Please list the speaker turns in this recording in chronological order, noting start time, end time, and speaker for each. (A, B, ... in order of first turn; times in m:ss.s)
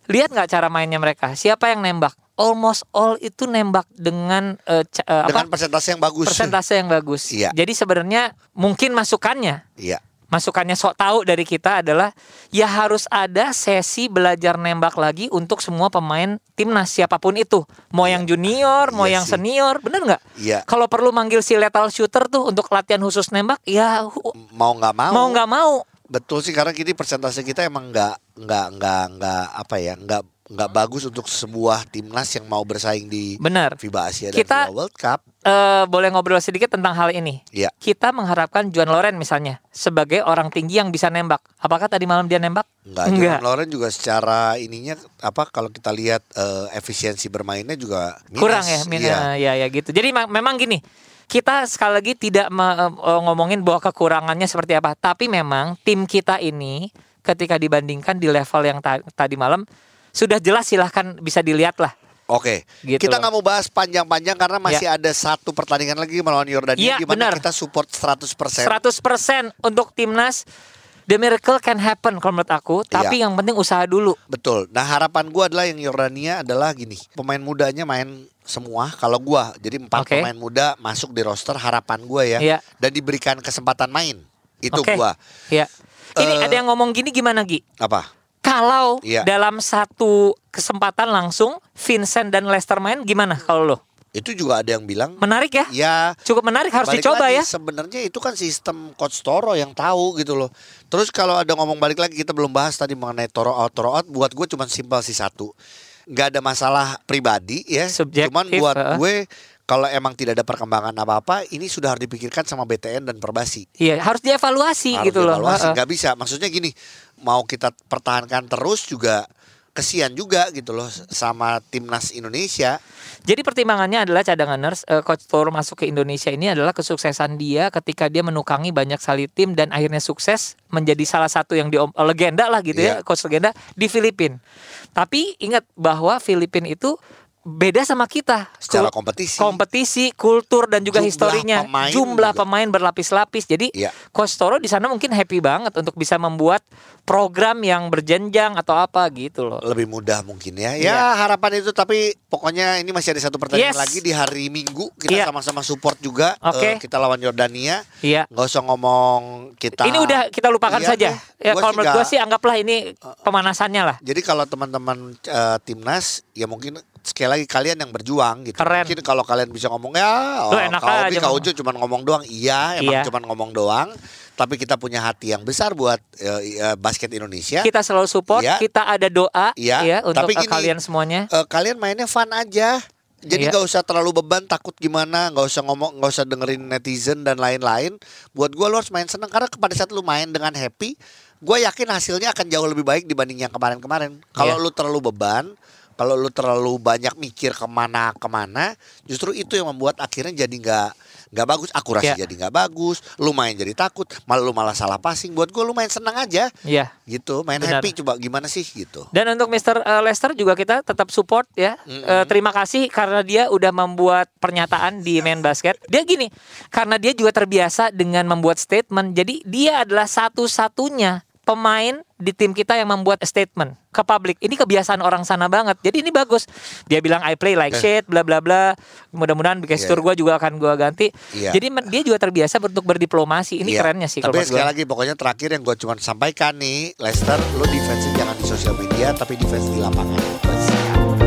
0:00.1-0:05.5 A
0:05.3-0:06.6 B
0:06.2-0:09.6 A
0:07.3-0:07.6 B
0:10.3-0:24.3 A
0:18.0-0:19.4 B
0:20.4-0:20.7 B
0:24.4-0:25.4 B
0:25.1-0:25.8 A
0:26.1-0:35.2 B
0:33.4-0:33.8 A
0:34.3-0:34.7 A
0:35.4-0:43.4 A
0:42.9-0:49.3 B
0:48.4-0:59.6 A
1:00.2-1:01.9 A
1:02.3-1:08.8 B
1:02.9-1:03.3 A
1:06.8-1:07.4 A
1:08.6-1:10.4 A
1:11.1-1:14.2 A
1:14.3-1:25.2 B
1:20.0-1:20.3 A
1:24.7-1:27.6 A
1:26.2-1:26.6 B
1:27.8-1:28.1 B
1:28.4-1:33.8 A
1:34.2-1:36.2 B
1:35.2-1:35.7 A
1:36.3-1:37.5 A
1:36.8-1:45.5 B
1:46.1-1:53.6 B
1:48.0-1:49.0 A
1:53.8-1:55.8 A
1:54.9-1:56.7 B
1:57.2-1:59.2 B
1:59.8-2:02.8 B
2:03.3-2:14.4 A
2:12.7-2:13.0 B
2:15.0-2:16.9 A
2:17.5-2:29.6 A
2:18.7-2:19.6 B
2:20.9-2:22.4 B
2:29.6-2:37.8 B
2:30.8-2:31.1 A
2:33.5-2:34.0 A
2:36.4-2:36.8 A
2:38.3-2:42.1 B
2:39.8-2:44.0 A
2:44.0-2:57.7 B
2:48.6-2:49.0 A
2:50.5-2:51.5 A
2:52.8-2:53.1 A
2:57.6-3:01.3 A
2:58.3-2:58.6 B
2:59.6-3:00.7 B
3:01.3-3:26.5 B
3:26.6-3:26.9 A
3:27.1-3:29.1 B
3:27.6-3:27.9 A
3:29.1-3:54.7 A
3:31.9-3:32.3 B
3:49.8-3:50.0 B
3:51.3-3:51.6 B
3:53.6-4:01.0 B